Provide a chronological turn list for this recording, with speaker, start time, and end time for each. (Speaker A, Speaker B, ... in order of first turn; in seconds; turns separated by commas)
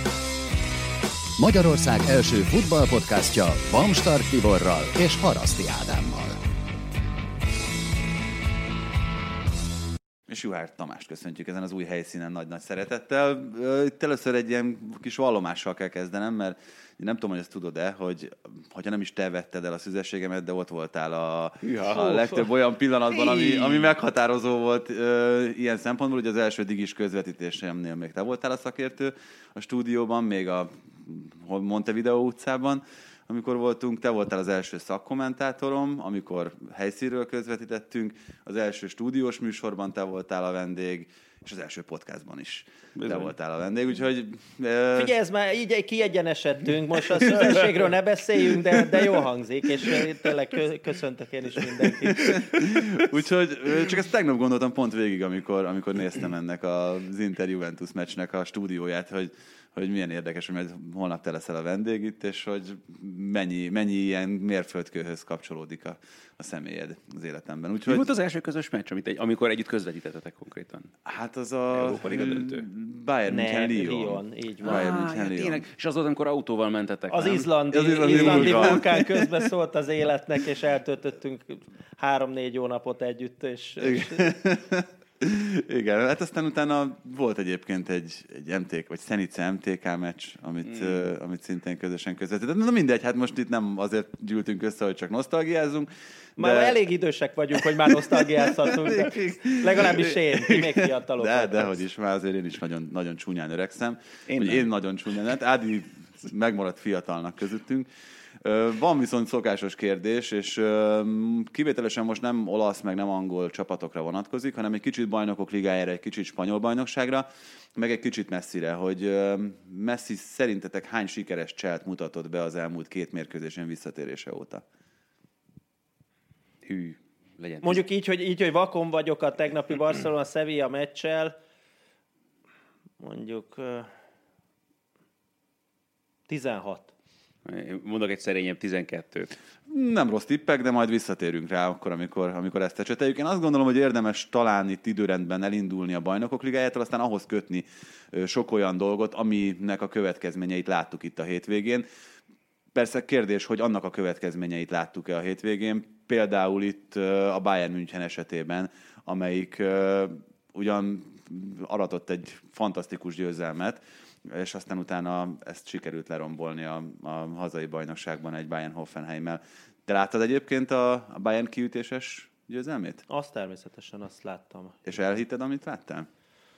Speaker A: 1.4-6.4, Speaker B: 10.3-45.1, Speaker C: 21.6-22.4, Speaker C: 23.1-23.9, Speaker C: 43.0-43.3, Speaker D: 44.9-52.5, Speaker B: 47.3-47.5, Speaker B: 52.1-68.1, Speaker C: 67.9-70.9, Speaker B: 71.0-75.6, Speaker C: 71.7-72.7, Speaker D: 73.3-74.8, Speaker C: 74.6-77.5, Speaker D: 77.1-84.4, Speaker B: 77.7-79.5, Speaker C: 78.0-78.8, Speaker B: 83.8-96.8, Speaker D: 96.4-101.8, Speaker B: 97.5-107.9, Speaker C: 104.3-104.7, Speaker B: 108.4-124.6, Speaker C: 126.6-127.8, Speaker D: 127.6-131.3, Speaker D: 133.0-133.9, Speaker D: 136.3-136.9, Speaker C: 137.4-139.3, Speaker B: 139.7-151.8, Speaker B: 152.7-173.0, Speaker D: 173.1-175.0, Speaker B: 174.8-176.1